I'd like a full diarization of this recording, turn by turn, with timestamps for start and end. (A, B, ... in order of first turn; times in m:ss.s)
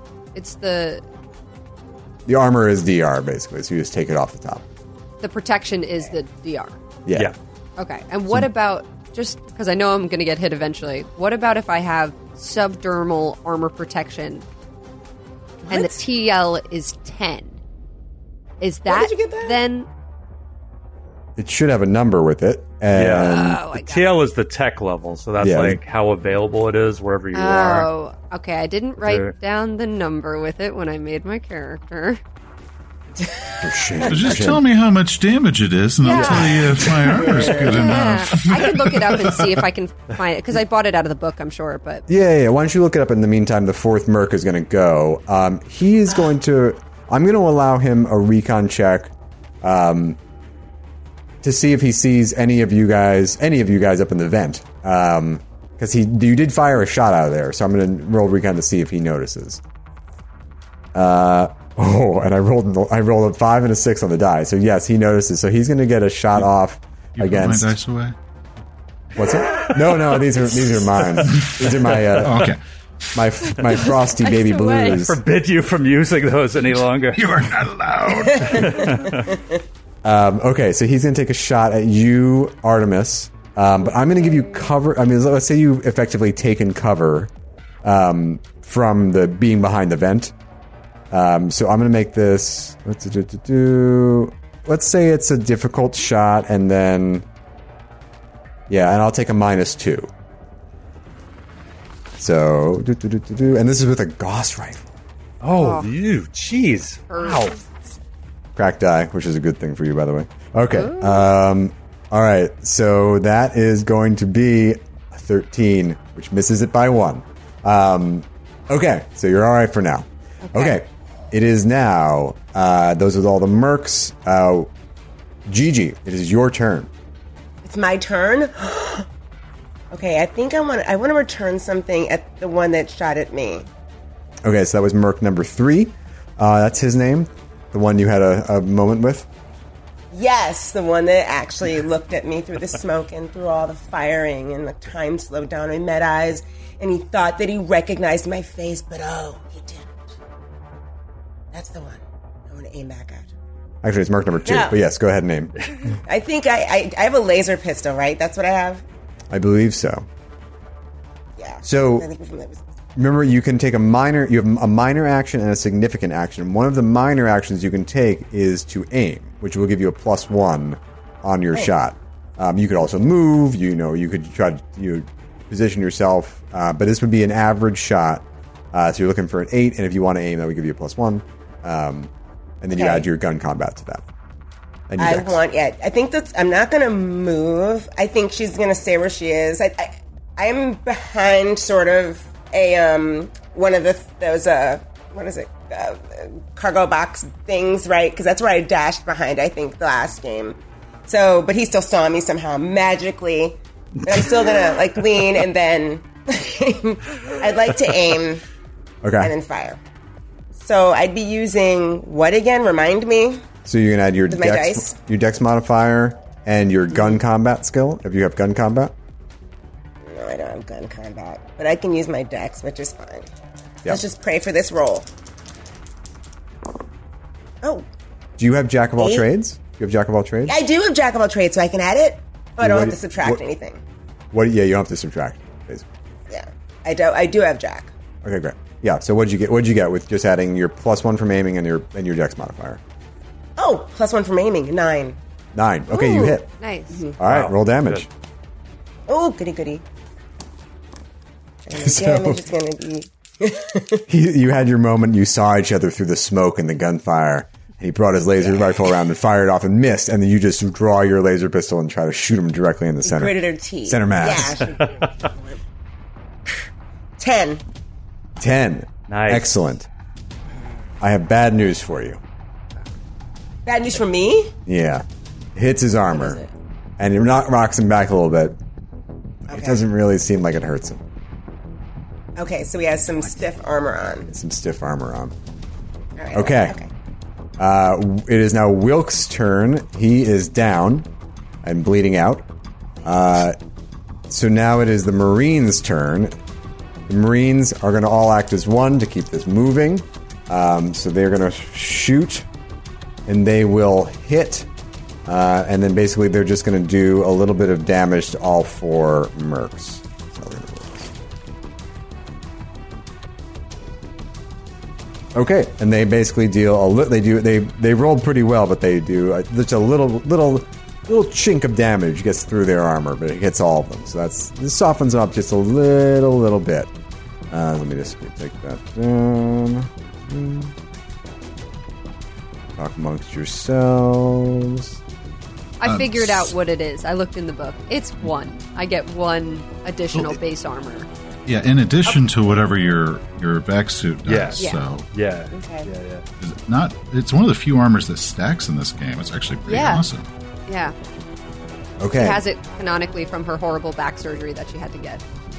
0:00.4-0:01.0 A
0:02.3-0:04.6 B
0:05.2-0:06.8 A
0:07.1-0:07.3 B
0:07.8-0:14.4 A
0:15.7-0:17.6 A
0:18.6-0:19.9 A
0:18.9-0:19.6 C
0:21.4-0:23.6 B
0:22.9-0:27.9 D
0:23.1-0:24.2 A
0:25.4-0:25.8 B
0:27.3-0:32.2 A
0:29.0-0:29.4 D
0:33.6-0:34.6 B
0:34.1-0:39.6 E
0:36.0-0:42.0 A
0:36.1-0:37.1 B
0:37.2-0:37.8 C
0:42.1-0:50.2 B
0:51.4-0:59.6 B
1:00.9-1:07.7 B
1:07.2-1:08.2 E
1:09.2-1:12.5 B
1:11.2-1:12.6 E
1:13.1-1:15.2 B
1:13.7-1:15.0 A
1:14.9-1:17.3 D
1:17.2-1:19.0 E
1:18.1-1:19.5 C
1:18.4-1:19.3 D
1:20.0-1:27.3 B
1:27.8-1:30.3 B
1:31.1-1:37.3 B
1:38.7-1:40.1 B
1:42.2-1:44.9 B
1:45.4-1:47.6 D
1:45.6-1:45.9 A
1:47.1-1:47.6 A
1:48.6-2:04.7 B
1:50.7-1:51.3 A
2:00.5-2:00.8 A
2:05.5-2:06.9 B
2:07.6-2:09.1 C
2:09.9-2:13.7 C
2:14.4-2:19.3 B
2:20.1-2:30.0 C
2:31.5-2:33.3 C
2:33.8-2:35.7 B
2:34.5-2:34.8 C
2:36.1-2:38.8 C
2:39.3-2:40.1 B
2:41.4-2:42.6 C
2:41.6-2:42.1 B
2:43.0-3:04.0 B
3:02.8-3:03.0 C
3:04.9-3:05.4 B
3:05.0-3:28.4 C
3:29.0-3:29.3 B
3:29.2-3:29.8 C
3:30.6-3:33.4 C
3:33.6-3:38.9 B
3:34.3-3:35.0 C
3:40.1-3:43.3 C
3:43.9-3:45.1 C
3:47.6-3:47.9 C
3:48.4-3:50.6 B
3:49.0-3:49.3 C
3:50.5-3:53.8 C
3:52.6-3:53.4 B
3:54.3-3:55.9 B
3:56.3-3:57.9 C
3:58.2-4:02.8 B
4:03.6-4:05.2 C
4:05.5-4:06.5 B
4:06.0-4:07.1 A
4:07.2-4:08.1 B
4:07.2-4:08.0 D
4:09.1-4:09.8 C
4:11.7-4:14.0 C
4:11.7-4:12.5 B
4:14.1-4:24.7 B
4:18.4-4:18.8 C
4:23.0-4:25.6 C
4:27.2-4:27.6 C
4:28.4-4:29.9 B
4:29.1-4:29.6 D
4:31.0-4:32.2 B
4:33.6-4:34.5 C
4:34.7-4:36.4 B
4:36.1-4:36.5 C
4:37.0-4:38.6 B
4:39.5-4:41.0 B
4:39.5-4:39.8 C
4:42.4-4:44.3 C
4:44.3-4:45.3 B
4:46.2-4:46.9 C
4:46.3-4:46.8 B
4:47.6-4:51.1 B
4:51.6-4:52.4 B
4:53.0-4:53.6 B
4:54.3-4:56.3 B
4:57.1-5:02.5 B
5:03.3-5:04.7 B
5:05.3-5:11.1 B
5:15.3-5:26.9 B
5:27.5-5:30.8 B
5:32.8-5:35.0 B
5:35.8-5:41.1 A
5:35.8-5:36.5 E
5:41.5-5:45.0 E
5:44.3-5:46.2 D
5:45.5-5:45.9 C
5:46.4-5:50.3 E
5:49.7-5:50.0 A
5:50.7-5:50.9 A
5:52.0-5:52.4 B
5:52.2-5:55.2 A